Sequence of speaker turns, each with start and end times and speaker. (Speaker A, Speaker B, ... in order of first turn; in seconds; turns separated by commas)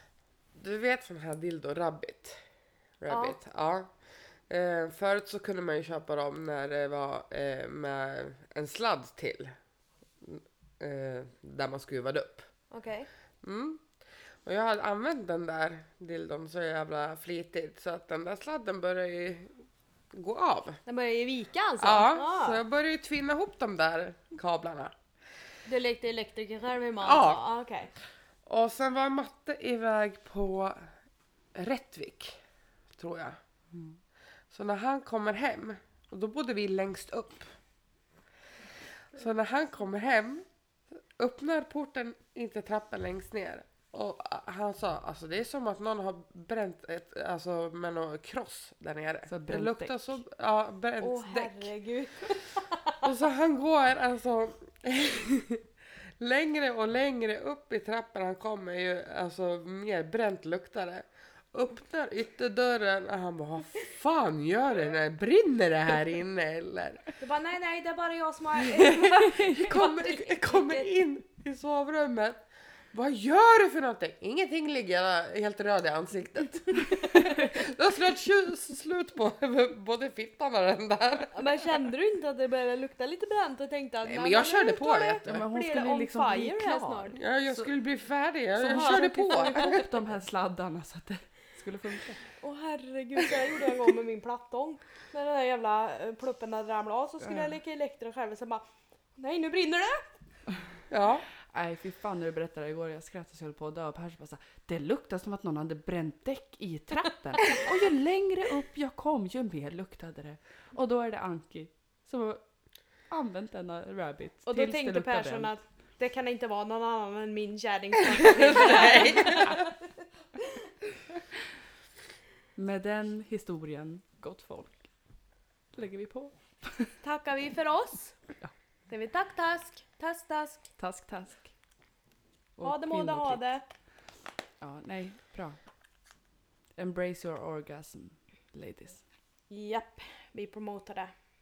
Speaker A: 0.6-2.4, Speaker A: 3.0-3.9, Speaker B: 3.1-3.4, Speaker A: 4.5-9.6, Speaker A: 10.2-12.5, Speaker B: 12.7-13.1, Speaker A: 13.4-13.8, Speaker A: 14.4-19.5, Speaker A: 20.1-20.8, Speaker B: 20.9-22.6, Speaker A: 21.8-24.9, Speaker B: 25.7-27.9, Speaker A: 27.0-27.5, Speaker A: 28.5-30.9, Speaker A: 31.5-32.4, Speaker A: 33.0-33.4, Speaker A: 34.5-37.5, Speaker A: 39.1-40.5, Speaker A: 41.2-51.7, Speaker C: 49.3-50.1, Speaker B: 51.0-53.0, Speaker A: 53.0-55.6, Speaker A: 56.2-67.1, Speaker B: 67.2-70.9, Speaker A: 68.7-81.7, Speaker C: 69.1-69.9, Speaker C: 77.0-77.4, Speaker B: 81.3-87.2, Speaker A: 84.1-85.4, Speaker C: 85.2-87.7, Speaker A: 87.2-89.8, Speaker B: 88.6-89.8, Speaker C: 88.6-92.2, Speaker B: 92.4-98.6, Speaker C: 97.2-97.6, Speaker B: 99.2-100.0, Speaker A: 100.9-101.3, Speaker C: 101.5-112.4, Speaker C: 113.1-115.5, Speaker B: 114.5-119.7, Speaker A: 118.3-119.6, Speaker C: 122.6-124.9, Speaker C: 125.7-126.9, Speaker B: 127.0-128.2, Speaker B: 128.9-130.6, Speaker C: 130.8-131.5, Speaker C: 132.6-133.4, Speaker B: 132.6-133.6, Speaker C: 134.6-135.6, Speaker C: 136.8-139.0, Speaker B: 139.5-141.1